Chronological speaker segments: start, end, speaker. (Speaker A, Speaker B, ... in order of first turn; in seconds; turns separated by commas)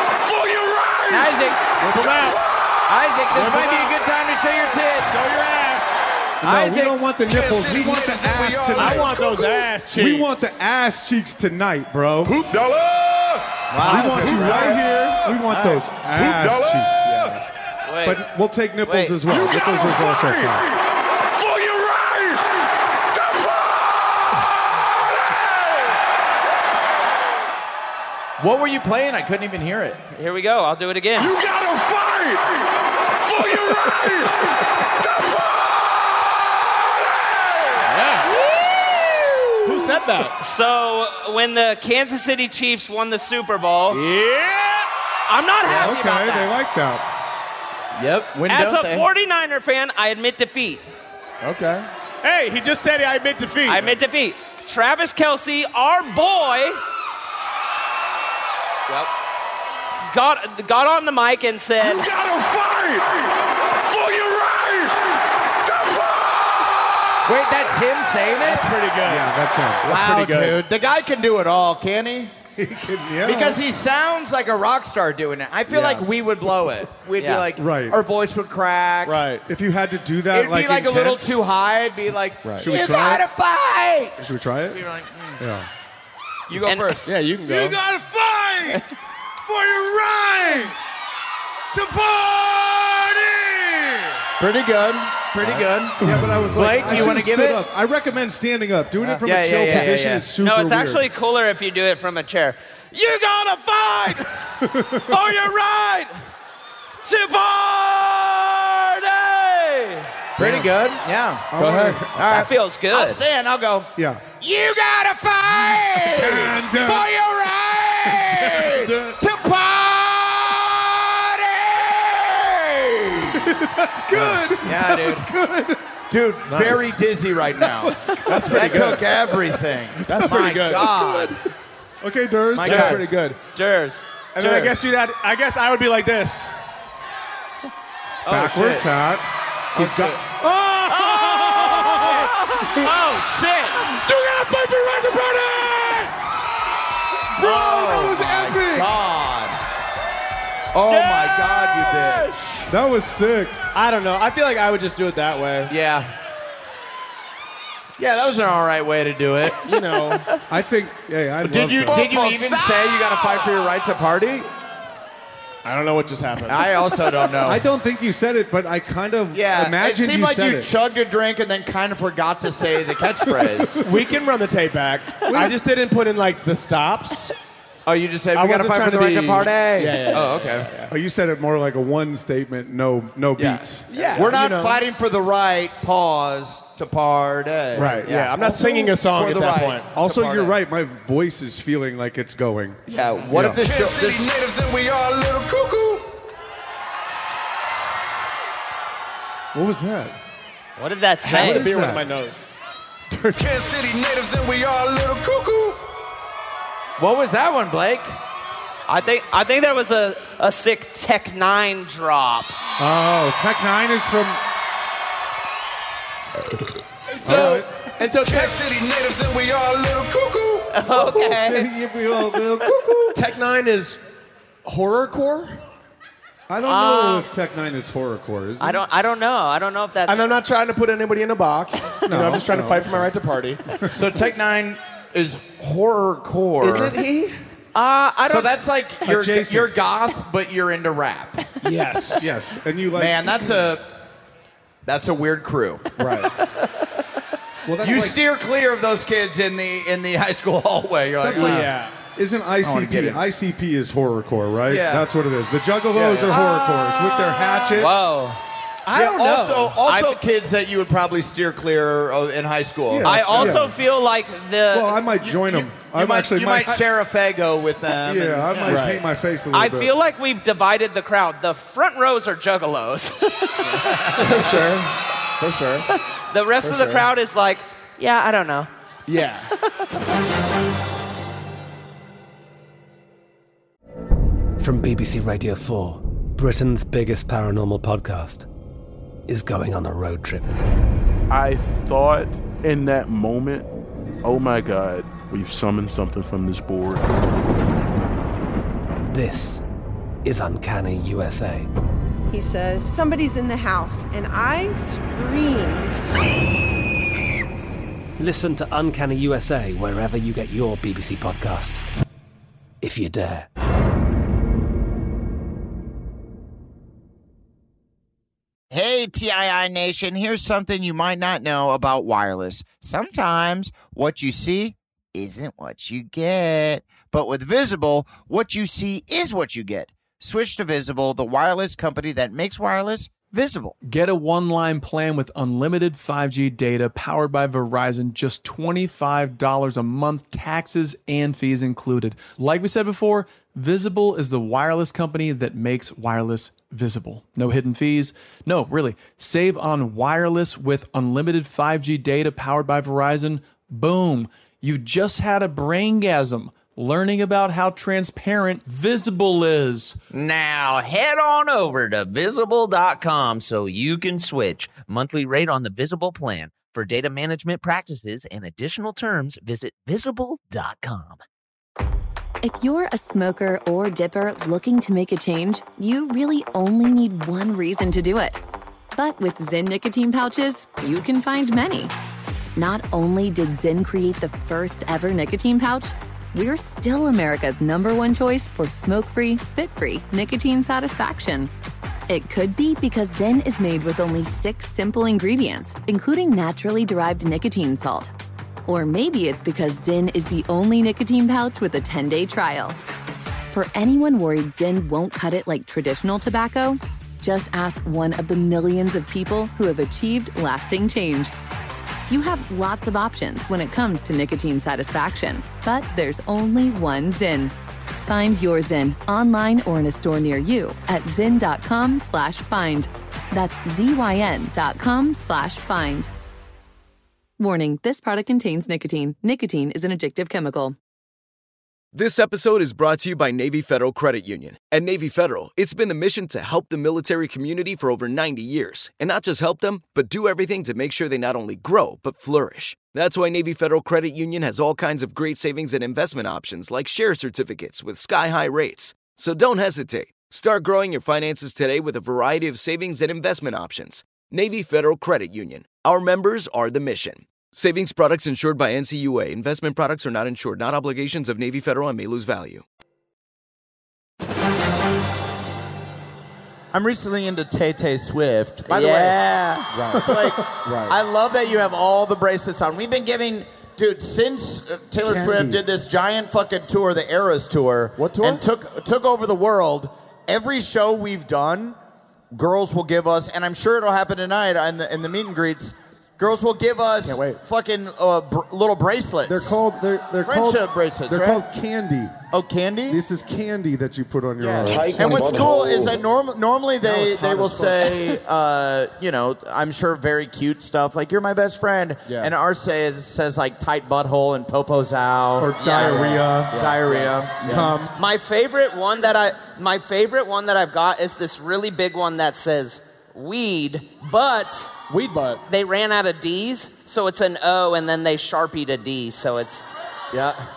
Speaker A: 1.1-1.7, Speaker B: 1.7-2.5, Speaker A: 2.9-5.2, Speaker B: 3.3-4.0, Speaker B: 5.0-6.0, Speaker C: 6.4-9.3, Speaker A: 6.4-7.0, Speaker B: 8.7-10.5, Speaker C: 9.9-12.4, Speaker D: 12.6-13.3, Speaker A: 13.7-14.9, Speaker C: 13.8-17.3, Speaker B: 13.9-14.6, Speaker B: 17.0-17.4, Speaker E: 17.9-18.2, Speaker C: 18.0-20.8, Speaker E: 18.8-19.2, Speaker D: 21.4-21.8, Speaker A: 28.4-30.0, Speaker E: 30.1-31.4, Speaker D: 31.4-32.4, Speaker B: 37.9-38.4, Speaker B: 39.6-40.4, Speaker E: 40.4-44.0, Speaker B: 43.9-44.9, Speaker E: 45.3-46.5, Speaker C: 45.6-47.0, Speaker A: 47.9-49.1, Speaker E: 48.5-50.8, Speaker B: 51.4-54.0, Speaker E: 53.6-56.8, Speaker E: 60.1-62.1, Speaker A: 67.3-68.7, Speaker B: 68.4-70.6, Speaker C: 69.0-69.9, Speaker A: 69.8-72.3, Speaker C: 72.6-73.6, Speaker A: 73.2-79.2, Speaker B: 75.7-76.1, Speaker E: 77.2-77.4, Speaker C: 77.6-78.0, Speaker B: 79.0-79.5, Speaker C: 79.5-81.4, Speaker A: 80.3-84.2, Speaker B: 82.4-82.7, Speaker C: 82.6-83.3, Speaker C: 84.2-84.8, Speaker A: 84.7-85.4, Speaker C: 85.4-85.7, Speaker A: 86.5-87.1, Speaker E: 86.6-87.0, Speaker B: 87.1-87.8, Speaker C: 87.5-88.8, Speaker C: 89.5-90.7, Speaker C: 91.7-94.1, Speaker A: 94.4-97.6, Speaker C: 96.0-101.0, Speaker E: 99.0-106.2, Speaker A: 99.2-100.2, Speaker C: 104.4-105.3, Speaker E: 107.0-110.1, Speaker C: 110.4-110.7, Speaker A: 110.4-123.4, Speaker C: 111.5-112.2, Speaker B: 111.6-112.0, Speaker E: 112.2-113.2, Speaker C: 114.0-114.2, Speaker E: 115.9-116.4, Speaker C: 116.1-117.1, Speaker C: 118.0-119.2, Speaker C: 123.3-125.8, Speaker A: 124.5-125.3, Speaker A: 126.1-131.4, Speaker B: 126.5-126.9, Speaker C: 126.5-127.0, Speaker C: 127.6-131.4, Speaker B: 128.2-129.1, Speaker B: 130.1-131.1, Speaker C: 132.0-133.1, Speaker A: 132.6-133.1, Speaker B: 132.6-133.4, Speaker E: 133.5-134.0, Speaker B: 134.3-136.5, Speaker A: 138.2-138.9, Speaker C: 138.2-139.2, Speaker A: 139.8-140.2, Speaker C: 139.8-142.9, Speaker E: 141.0-142.8, Speaker A: 141.7-144.0, Speaker C: 147.3-149.0, Speaker A: 147.4-149.6, Speaker A: 150.7-152.7, Speaker E: 150.8-152.6, Speaker C: 152.7-153.6, Speaker B: 153.7-155.7, Speaker A: 155.7-156.1, Speaker A: 158.0-159.7, Speaker B: 159.7-160.3, Speaker C: 160.5-162.2, Speaker A: 161.4-164.5, Speaker B: 165.7-166.7, Speaker A: 166.5-167.6, Speaker C: 167.4-170.7, Speaker A: 169.3-173.8, Speaker C: 173.4-173.7, Speaker B: 173.8-177.3, Speaker C: 175.2-175.5, Speaker A: 177.9-180.7, Speaker B: 178.3-180.9, Speaker C: 180.9-184.3, Speaker A: 183.4-190.6, Speaker B: 183.9-184.8, Speaker C: 187.7-188.1, Speaker B: 187.7-189.9, Speaker C: 189.9-193.6, Speaker A: 192.9-194.4, Speaker D: 194.2-195.7, Speaker C: 199.5-200.2, Speaker E: 200.8-201.7, Speaker B: 201.2-202.5, Speaker C: 201.3-202.1, Speaker C: 203.1-203.7, Speaker D: 205.0-205.4, Speaker A: 207.0-208.2, Speaker E: 208.9-212.5, Speaker C: 212.8-214.4, Speaker B: 217.1-218.8, Speaker C: 217.2-217.7, Speaker E: 220.7-221.7, Speaker C: 220.9-223.2, Speaker E: 222.4-222.9, Speaker B: 223.1-224.0, Speaker B: 224.7-225.6, Speaker C: 226.5-228.8, Speaker E: 226.7-227.3, Speaker E: 228.6-230.3, Speaker B: 230.1-233.6, Speaker C: 232.0-233.1, Speaker A: 233.9-237.0, Speaker B: 236.6-237.3, Speaker E: 237.7-238.5, Speaker A: 238.3-241.6, Speaker C: 239.0-239.8, Speaker B: 241.6-242.3, Speaker C: 242.2-243.5, Speaker A: 242.9-243.8, Speaker A: 244.8-246.0, Speaker B: 246.0-246.3, Speaker C: 247.7-248.2, Speaker A: 247.8-251.7, Speaker C: 251.2-258.2, Speaker B: 251.3-251.9, Speaker A: 252.6-253.2, Speaker A: 254.7-255.1, Speaker A: 256.0-257.8, Speaker B: 256.1-256.4, Speaker E: 257.7-258.4, Speaker B: 258.9-259.8, Speaker A: 258.9-263.6, Speaker E: 259.8-260.2, Speaker C: 262.9-263.8, Speaker E: 263.0-265.0, Speaker C: 264.7-266.9, Speaker A: 265.2-268.8, Speaker C: 268.0-269.9, Speaker B: 268.6-269.0, Speaker E: 269.5-274.2, Speaker B: 273.6-275.9, Speaker A: 274.0-274.4, Speaker E: 276.3-278.7, Speaker B: 276.6-277.1, Speaker B: 279.1-279.5, Speaker F: 284.6-288.5, Speaker F: 289.3-290.5, Speaker G: 291.3-293.7, Speaker G: 294.2-297.1, Speaker F: 299.1-299.6, Speaker F: 300.2-301.7, Speaker H: 302.3-306.0, Speaker F: 308.2-311.9, Speaker F: 312.8-313.5, Speaker A: 318.7-333.8, Speaker I: 333.8-360.0, Speaker J: 360.1-371.2, Speaker K: 372.4-378.4, Speaker K: 378.9-381.9, Speaker K: 382.6-391.5, Speaker K: 392.1-398.1, Speaker K: 398.7-402.8, Speaker K: 403.5-411.3, Speaker K: 412.1-417.5, Speaker K: 418.0-426.1, Speaker K: 427.4-430.8, Speaker L: 431.9-462.6, Speaker A: 466.7-469.2, Speaker E: 468.7-469.7, Speaker B: 469.7-471.0, Speaker A: 470.0-481.8, Speaker C: 470.0-470.4, Speaker C: 475.0-475.6, Speaker B: 478.0-478.4, Speaker A: 482.3-489.6, Speaker B: 487.0-487.4, Speaker C: 489.2-492.2, Speaker A: 490.2-491.4, Speaker A: 492.3-493.0, Speaker C: 492.9-495.1, Speaker A: 494.4-507.7, Speaker D: 494.6-496.0, Speaker C: 496.8-498.0, Speaker B: 502.1-502.3, Speaker C: 505.4-506.6, Speaker E: 505.6-506.1, Speaker B: 505.8-507.8, Speaker C: 507.4-507.9, Speaker E: 507.9-514.8, Speaker B: 514.9-515.4, Speaker E: 515.5-519.6, Speaker A: 520.1-520.4